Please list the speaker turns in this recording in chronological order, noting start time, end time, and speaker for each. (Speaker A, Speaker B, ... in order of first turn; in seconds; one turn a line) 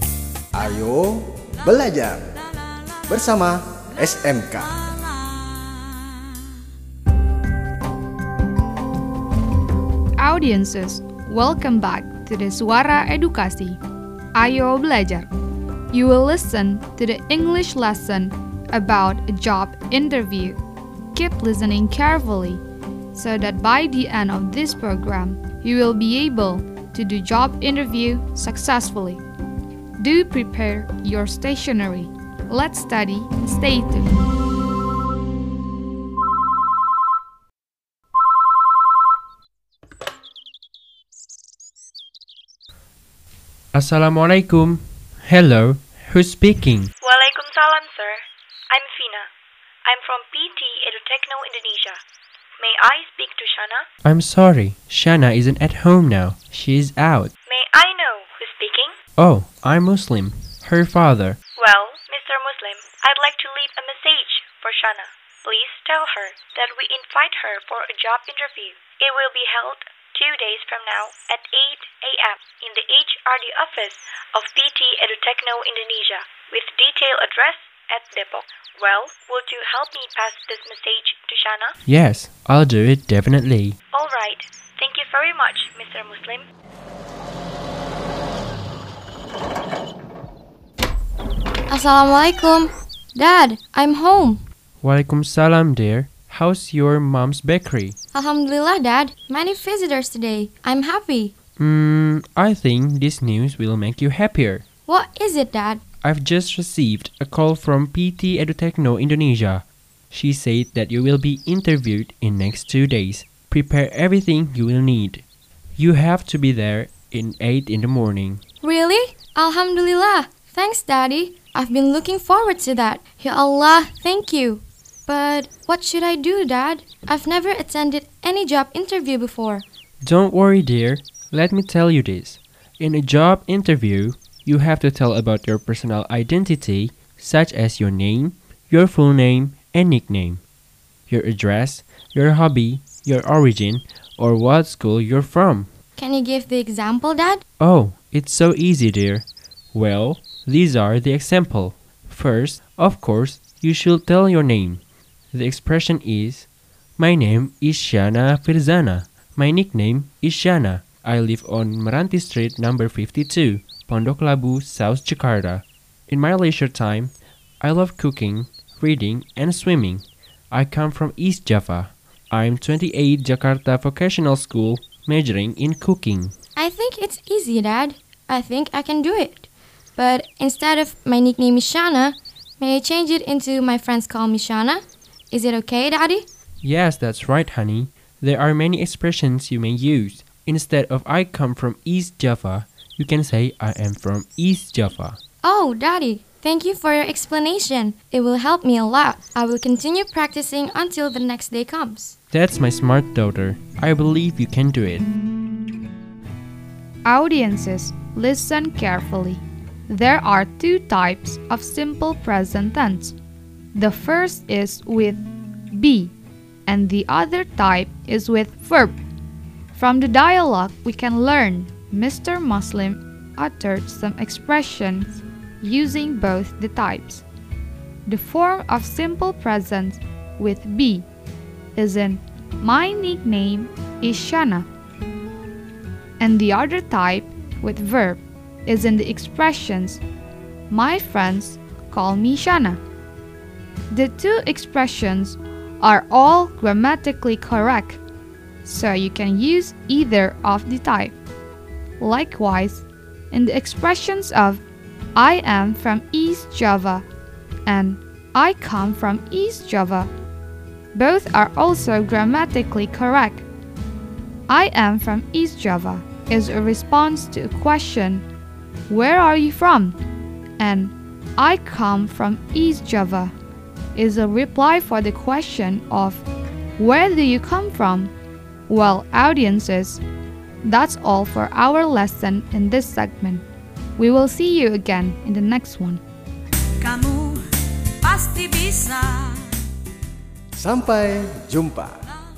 Speaker A: 0.5-2.2
Speaker A: 3.1-4.7
Speaker B: 5.0-5.9
Speaker C: 10.2-13.8
Speaker C: 14.3-15.3
Speaker C: 15.9-20.6
Speaker C: 21.1-22.6
Speaker C: 23.1-29.2
Speaker C: 30.0-34.1
Speaker D: 43.7-46.9
Speaker E: 47.0-49.3
Speaker E: 49.8-52.0
Speaker E: 52.6-53.9
Speaker D: 54.0-57.3
Speaker E: 57.5-59.0
Speaker D: 59.2-61.4
Speaker E: 61.6-81.8
Speaker D: 81.8-83.8
Speaker E: 83.9-86.5
Speaker F: 91.7-94.4
Speaker D: 94.8-98.0
Speaker F: 98.1-101.3
Speaker D: 101.6-104.6
Speaker F: 104.8-105.8
Speaker D: 106.0-115.2
Speaker D: 115.8-118.4
Speaker F: 118.6-129.6
Speaker D: 130.0-140.4
Speaker D: 141.1-145.7
Speaker F: 145.9-147.4
Speaker D: 147.6-176.3
Speaker F: 176.6-186.2
Speaker D: 186.6-195.2
Speaker F: 195.4-202.2
Speaker D: 202.3-205.1
Speaker C: 207.0-213.1
Speaker C: 213.7-216.1
Speaker C: 216.7-219.0
Speaker C: 219.7-227.2
Speaker C: 228.1-231.1
Speaker C: 231.7-234.7
Speaker C: 236.2-240.0
Speaker C: 240.7-242.8
Speaker C: 243.9-248.0
Speaker C: 248.6-251.2
Speaker C: 252.0-254.6
Speaker C: 255.2-257.1
Speaker C: 257.6-260.1
Speaker C: 260.9-263.4
Speaker C: 264.5-268.2
Speaker C: 268.9-270.0
Speaker C: 270.6-273.3
Speaker C: 273.9-276.2
Speaker C: 276.8-278.1
Speaker C: 278.7-280.0
Speaker C: 280.6-283.4
Speaker C: 284.0-286.0
Speaker B: 286.8-287.5
Speaker B: 288.0-289.5
Speaker A: 290.5-291.9